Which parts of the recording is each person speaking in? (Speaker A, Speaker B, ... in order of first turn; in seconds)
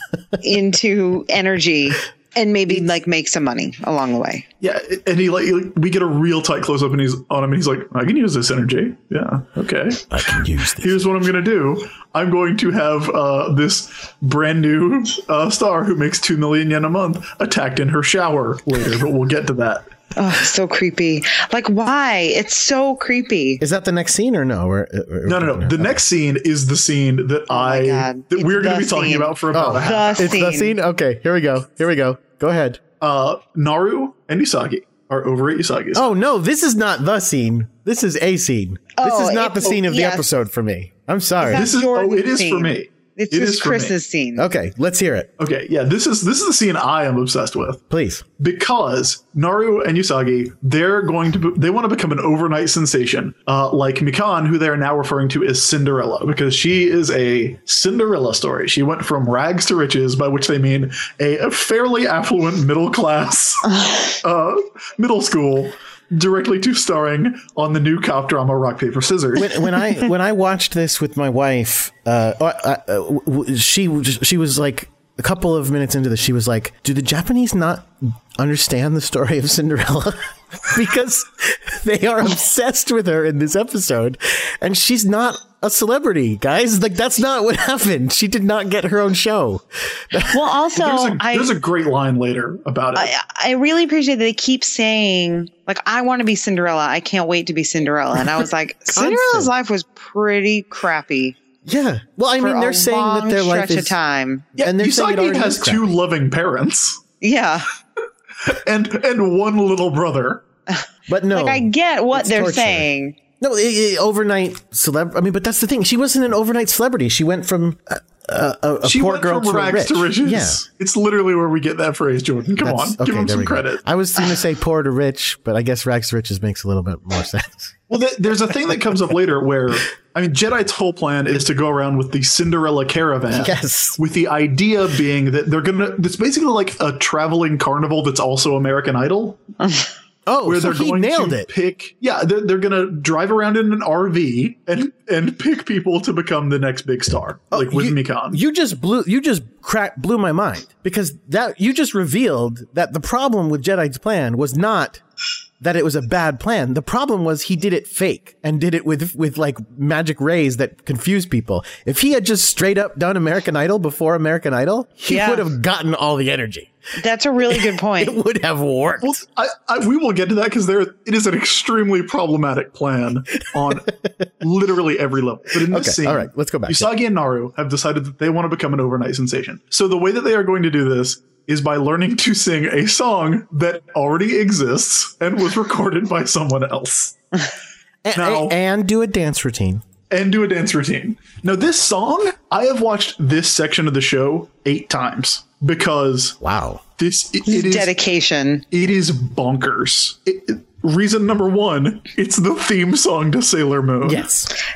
Speaker A: 0.4-4.4, 20.1-23.6, 27.5-30.8, 39.0-40.3, 41.4-44.5, 90.3-91.5, 93.0-101.3, 102.4-104.5, 107.2-107.7, 111.3-113.2, 165.1-165.4, 167.0-168.2, 197.5-198.6
Speaker B: 4.6-10.2, 10.8-19.9, 25.2-30.4, 33.0-36.0, 41.5-44.0, 45.4-47.8, 48.4-69.7, 90.8-93.1, 104.6-107.0, 108.4-110.4, 118.8-123.8, 127.9-139.5, 140.4-148.4, 169.0-187.2, 188.1-188.6, 190.1-196.4, 197.0-197.9, 198.7-204.3
Speaker C: 10.1-11.3, 23.6-26.0, 29.5-32.8, 35.9-41.7, 44.4-45.3, 47.9-48.2, 69.3-90.4, 98.9-99.5, 101.6-104.0, 104.6-105.9, 111.1-112.9, 113.4-120.6, 122.6-127.8, 133.3-134.0, 140.3-141.5, 147.5-155.0, 155.6-166.7, 167.4-169.2, 175.6-176.9, 188.0-189.8, 196.4-196.8, 204.0-204.5